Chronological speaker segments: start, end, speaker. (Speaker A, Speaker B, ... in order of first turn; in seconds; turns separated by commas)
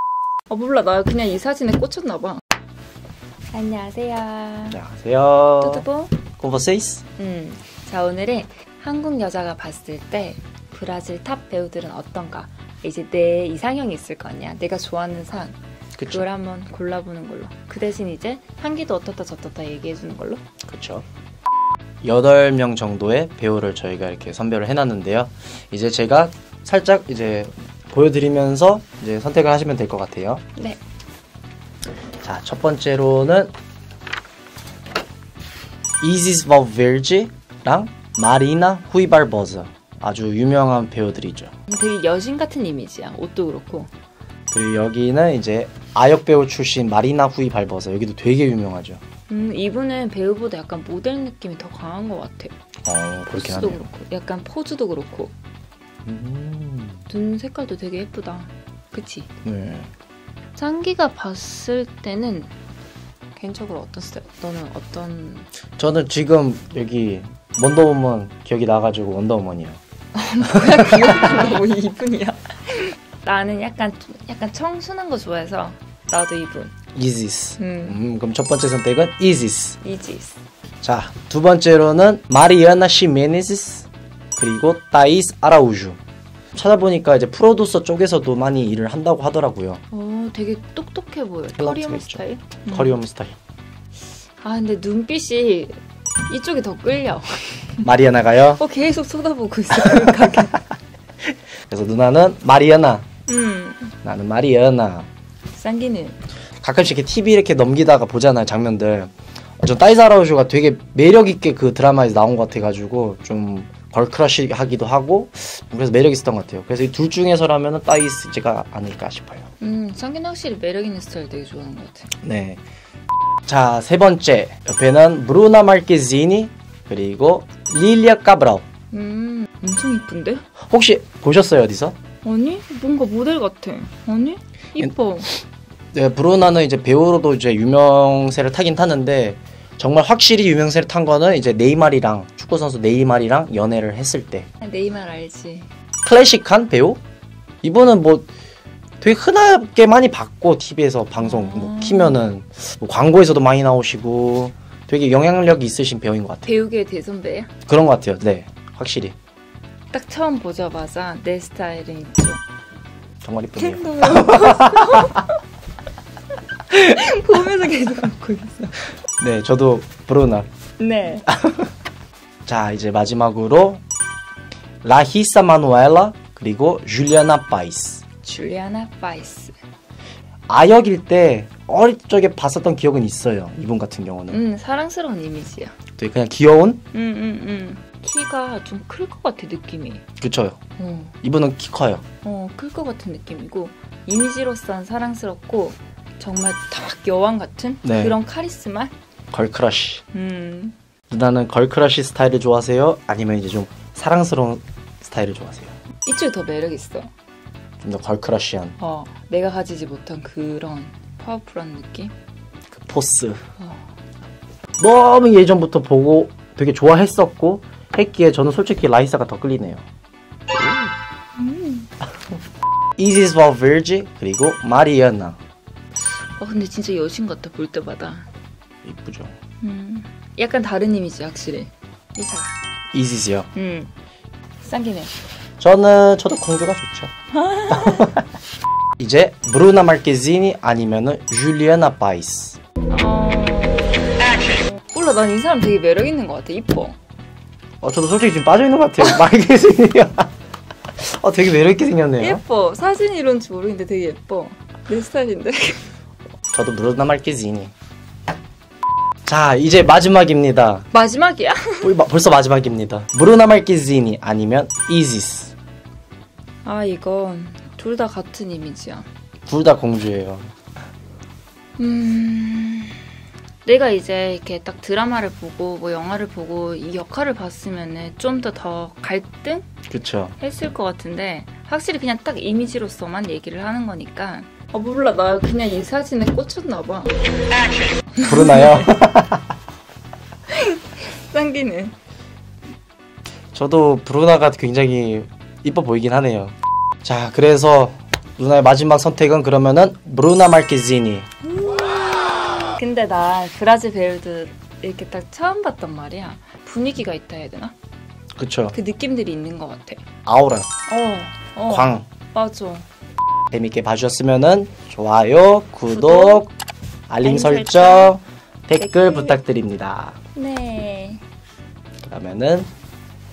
Speaker A: 0.5-2.4, Speaker A: 3.5-4.8, Speaker B: 4.7-5.8, Speaker A: 5.6-6.2, Speaker B: 6.4-7.0, Speaker A: 7.2-20.4, Speaker B: 15.9-16.3, Speaker B: 20.6-21.0, Speaker B: 22.0-30.4, Speaker B: 32.2-33.5, Speaker B: 36.0-41.5, Speaker A: 41.7-43.9, Speaker B: 44.5-49.0, Speaker A: 49.3-52.5, Speaker B: 52.9-53.8, Speaker A: 53.3-55.3, Speaker B: 56.0-57.0, Speaker A: 57.1-59.3, Speaker B: 59.4-59.9, Speaker A: 60.6-62.5, Speaker A: 63.4-65.5, Speaker B: 65.8-69.8, Speaker A: 70.1-76.7, Speaker B: 70.4-71.1, Speaker B: 76.9-79.8, Speaker A: 77.6-78.0, Speaker A: 79.8-80.4, Speaker B: 80.8-86.0, Speaker B: 86.5-89.8, Speaker A: 89.9-93.0, Speaker B: 91.5-93.4, Speaker A: 94.4-95.8, Speaker A: 96.3-97.9, Speaker B: 97.8-98.6, Speaker A: 98.5-100.6, Speaker B: 99.9-100.5, Speaker B: 101.7-103.0, Speaker A: 103.3-103.9, Speaker B: 104.0-105.1, Speaker A: 105.5-106.2, Speaker B: 106.6-119.5, Speaker A: 119.6-122.1, Speaker B: 122.2-122.6, Speaker B: 123.5-128.6, Speaker A: 128.9-130.4, Speaker B: 130.7-131.9, Speaker A: 132.2-135.3, Speaker B: 135.9-144.5, Speaker A: 144.6-145.7, Speaker B: 146.0-147.0, Speaker B: 147.6-148.3, Speaker B: 149.0-156.5, Speaker A: 151.2-152.2, Speaker A: 156.4-157.5, Speaker B: 157.7-159.2, Speaker A: 159.9-162.4, Speaker B: 163.2-165.2, Speaker A: 163.6-165.3, Speaker A: 166.7-168.8, Speaker B: 169.2-170.5, Speaker A: 170.8-171.3, Speaker B: 171.3-171.7, Speaker B: 172.4-173.8, Speaker B: 174.8-178.0, Speaker A: 178.2-179.5, Speaker B: 180.5-184.4, Speaker A: 184.3-185.8, Speaker B: 186.0-186.8, Speaker A: 186.9-190.0, Speaker B: 190.2-190.6, Speaker A: 190.8-191.1, Speaker B: 191.2-192.0, Speaker A: 192.2-198.9, Speaker B: 197.8-198.2, Speaker B: 199.3-200.0, Speaker A: 200.1-200.7, Speaker B: 201.1-205.7, Speaker A: 206.1-207.1, Speaker B: 207.8-208.8, Speaker A: 208.8-212.1, Speaker B: 212.7-213.4, Speaker B: 214.8-219.8, Speaker B: 220.5-220.9, Speaker A: 221.4-221.9, Speaker B: 223.0-225.4, Speaker A: 226.4-228.3, Speaker B: 228.8-229.3, Speaker A: 229.6-232.5, Speaker B: 232.9-233.5, Speaker A: 233.5-233.9, Speaker A: 234.6-235.1, Speaker B: 235.6-237.1, Speaker A: 237.3-238.1, Speaker B: 237.7-238.2, Speaker B: 239.0-242.6, Speaker A: 242.9-244.0, Speaker A: 244.7-247.0, Speaker B: 247.8-250.3, Speaker B: 251.0-252.4, Speaker A: 252.2-255.8, Speaker B: 256.5-257.7, Speaker B: 259.2-260.9, Speaker A: 260.9-261.9, Speaker B: 261.8-265.5, Speaker A: 266.6-269.1, Speaker B: 269.5-270.5, Speaker A: 271.8-273.0, Speaker A: 273.6-279.7, Speaker B: 279.9-280.3, Speaker A: 280.4-287.2, Speaker A: 288.1-288.9, Speaker B: 288.2-289.4, Speaker A: 290.5-291.9, Speaker B: 293.5-301.3, Speaker A: 301.4-307.7, Speaker B: 308.4-308.8, Speaker A: 308.7-310.0, Speaker B: 310.2-310.7, Speaker A: 310.9-312.9, Speaker B: 311.7-312.1, Speaker B: 313.5-316.5, Speaker A: 315.9-316.4, Speaker B: 317.1-320.2, Speaker A: 317.2-318.1, Speaker A: 318.8-319.4, Speaker A: 320.3-321.2, Speaker B: 322.0-322.7